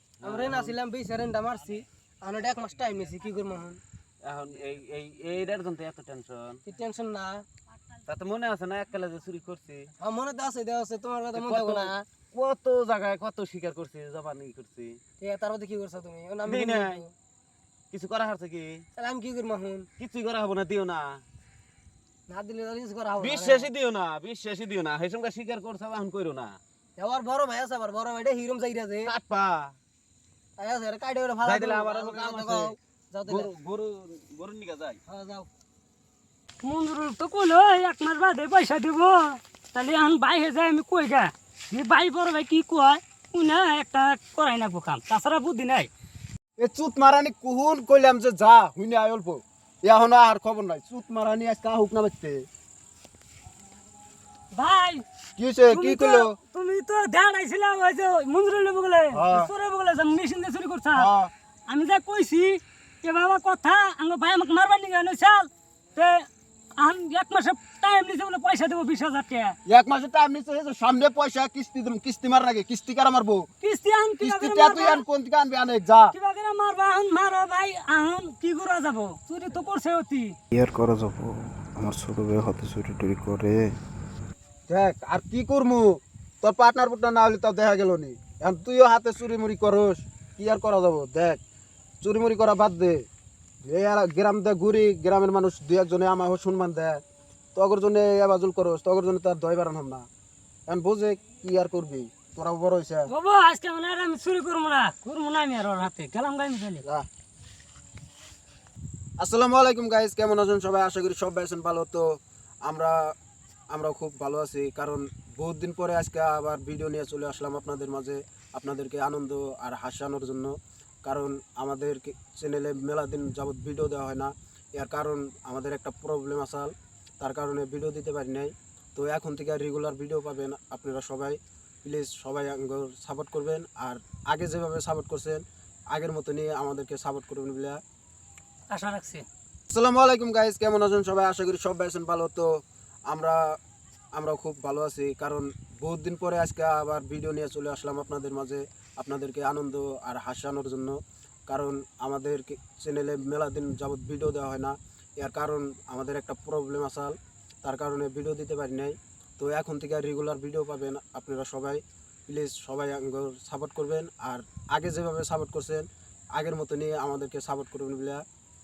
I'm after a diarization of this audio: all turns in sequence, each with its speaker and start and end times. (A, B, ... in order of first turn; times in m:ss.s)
0:00.2-0:00.7 A
0:00.2-0:03.8 B
0:04.2-0:06.6 A
0:06.6-0:07.4 B
0:08.1-0:09.9 A
0:10.0-0:12.1 B
0:11.3-0:15.0 A
0:15.2-0:17.1 B
0:16.4-0:17.0 A
0:17.9-0:18.8 A
0:19.0-0:19.9 B
0:20.0-0:21.2 A
0:22.3-0:23.7 B
0:23.2-0:26.6 A
0:27.0-0:29.2 B
0:29.1-0:29.8 A
0:30.6-0:33.5 B
0:31.4-0:32.6 A
0:33.3-0:35.0 A
0:35.1-0:35.5 B
0:36.6-0:45.9 C
0:46.6-0:52.4 D
0:54.5-0:55.0 C
0:55.4-0:56.3 D
0:55.7-1:01.1 C
0:59.1-0:59.5 D
1:00.9-1:01.3 D
1:01.7-1:06.3 C
1:06.8-1:09.6 C
1:09.7-1:13.5 D
1:13.6-1:15.0 C
1:14.2-1:16.1 D
1:16.1-1:20.4 C
1:20.5-1:23.7 E
1:20.7-1:23.5 D
1:24.7-1:31.4 D
1:32.0-1:33.0 D
1:33.6-1:37.0 D
1:37.6-1:40.1 D
1:40.7-1:43.1 D
1:43.1-1:46.8 C
1:49.2-1:53.1 D
1:53.7-2:17.8 D
2:18.7-2:19.2 C
2:19.7-2:22.5 D
2:23.1-2:23.6 D
2:24.2-2:48.2 D